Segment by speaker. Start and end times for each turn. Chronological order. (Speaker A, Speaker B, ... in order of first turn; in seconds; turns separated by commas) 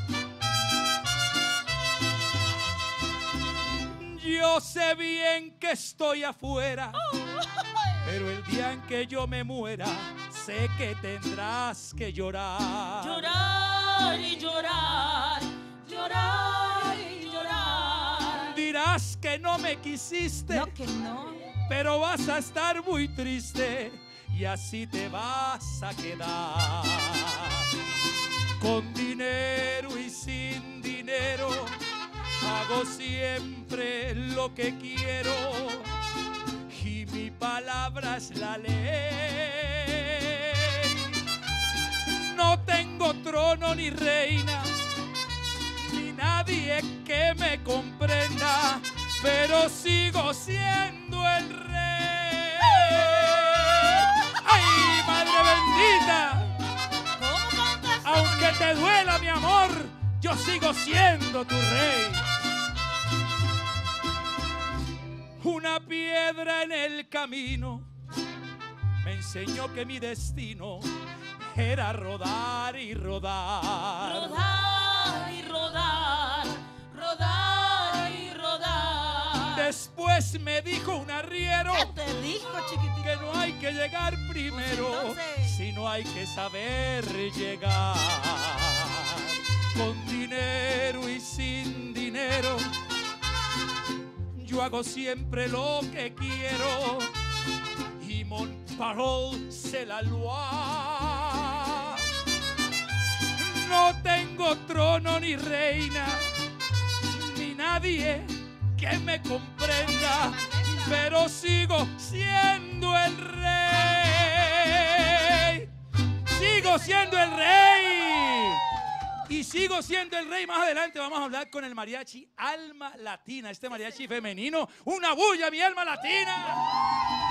Speaker A: 3.8-7.0, Speaker B: 7.1-7.6, Speaker A: 8.0-13.3, Speaker B: 13.0-18.6, Speaker A: 18.3-20.7, Speaker B: 20.5-21.5, Speaker A: 21.6-27.7, Speaker A: 28.6-31.8, Speaker A: 32.4-35.9, Speaker A: 36.6-41.2, Speaker A: 42.0-44.8, Speaker A: 45.8-56.6, Speaker B: 57.1-58.7, Speaker A: 58.0-62.3, Speaker A: 65.4-67.9, Speaker A: 69.0-74.4, Speaker B: 74.0-79.7, Speaker A: 79.5-81.9, Speaker B: 81.7-83.4, Speaker A: 83.0-92.7, Speaker B: 84.5-85.6, Speaker A: 94.3-97.1, Speaker A: 98.0-102.1, Speaker A: 103.3-106.3, Speaker A: 107.0-115.7, Speaker B: 110.1-110.8, Speaker A: 116.2-118.6, Speaker A: 119.2-126.6